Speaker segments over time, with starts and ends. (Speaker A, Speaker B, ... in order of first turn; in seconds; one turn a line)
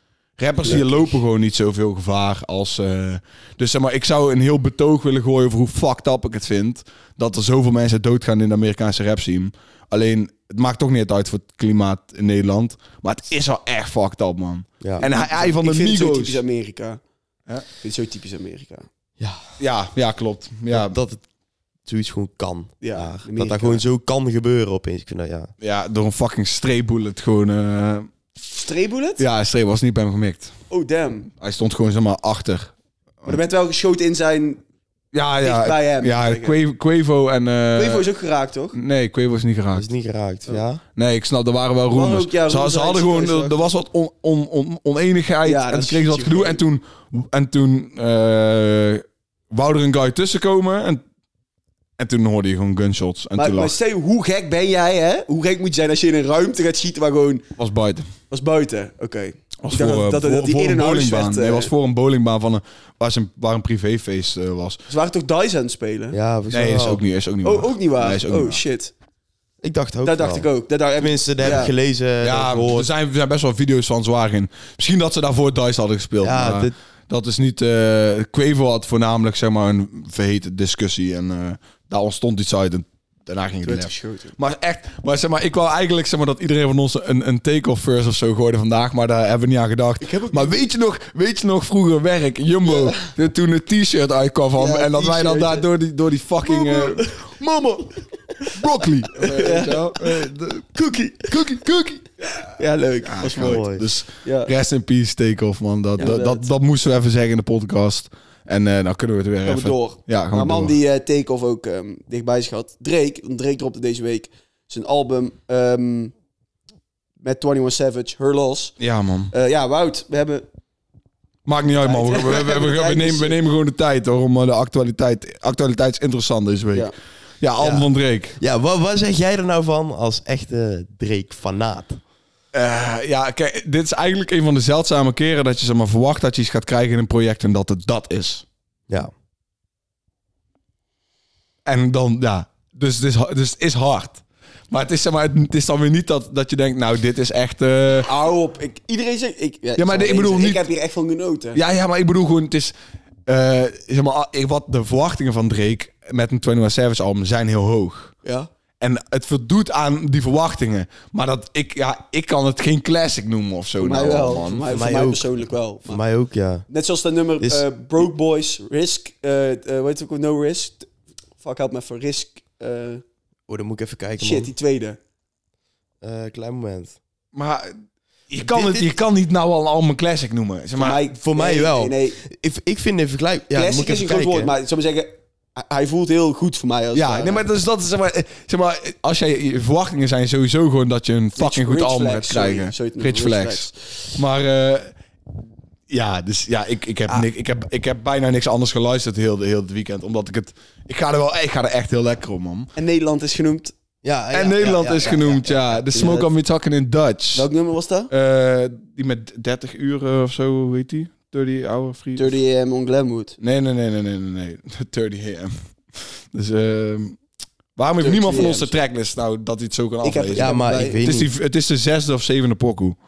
Speaker A: 0.4-16.4
Speaker B: 14.8-15.1
Speaker C: 15.0-17.0
Speaker C: 17.8-18.9
Speaker B: 19.2-19.5
Speaker A: 19.6-21.0
Speaker B: 20.7-21.2
Speaker B: 21.9-25.5
Speaker C: 22.8-23.8
Speaker A: 25.6-28.1
Speaker C: 28.6-29.2
Speaker A: 29.2-30.5
Speaker C: 30.7-31.3
Speaker A: 31.4-32.7
Speaker C: 33.2-34.6
Speaker A: 35.1-38.1
Speaker C: 35.4-36.6
Speaker C: 37.7-38.8
Speaker A: 38.7-39.9
Speaker B: 39.7-40.8
Speaker A: 41.0-51.0
Speaker C: 41.9-43.5
Speaker C: 45.4-46.6
Speaker A: 52.0-53.7
Speaker C: 53.4-57.4
Speaker A: 57.6-58.1
Speaker C: 58.3-61.7
Speaker A: 59.6-64.8
Speaker C: 64.9-66.2
Speaker B: 66.1-67.0
Speaker A: 66.5-68.6
Speaker C: 67.4-68.9
Speaker B: 69.6-72.9
Speaker C: 70.0-71.7
Speaker A: 72.2-98.0
Speaker B: 76.2-76.7
Speaker C: 83.6-84.3
Speaker C: 90.0-90.6
Speaker C: 92.7-93.1
Speaker C: 94.6-95.7
Speaker C: 96.5-97.1
Speaker A: 98.5-100.7
Speaker C: 99.2-101.4
Speaker A: 101.3-102.5
Speaker C: 102.5-103.7
Speaker A: 103.0-110.7
Speaker B: 103.3-103.8
Speaker C: 104.2-104.5
Speaker C: 106.0-106.5
Speaker C: 109.4-116.1
Speaker C: 117.2-118.7
Speaker A: 118.8-119.3
Speaker C: 119.3-120.4
Speaker A: 121.5-128.3
Speaker C: 121.8-123.4
Speaker B: 127.6-127.9
Speaker B: 128.4-132.0
Speaker A: 132.5-138.4
Speaker A: 141.6-148.1
Speaker C: 148.1-151.6
Speaker A: 149.8-150.6
Speaker A: 151.5-152.7
Speaker A: 153.3-158.1
Speaker C: 158.2-158.5
Speaker A: 158.8-164.7
Speaker C: 163.8-166.0
Speaker B: 164.7-166.6
Speaker C: 166.7-173.0
Speaker B: 167.4-167.7
Speaker B: 173.5-174.5
Speaker C: 174.2-175.0
Speaker B: 176.0-176.9
Speaker A: 177.3-177.7
Speaker A: 178.3-181.0
Speaker B: 178.4-178.9
Speaker C: 180.8-182.2
Speaker B: 181.1-184.5
Speaker C: 183.5-187.4
Speaker A: 186.9-194.9
Speaker C: 191.4-194.0
Speaker A: 195.9-202.7
Speaker C: 202.8-203.7
Speaker B: 204.0-205.8
Speaker A: 204.3-207.5
Speaker C: 205.9-206.3
Speaker C: 207.3-208.1
Speaker A: 208.1-212.4
Speaker C: 212.2-213.4
Speaker A: 213.4-217.2
Speaker A: 217.8-223.0
Speaker C: 218.0-218.7
Speaker C: 220.0-221.0
Speaker B: 220.3-221.3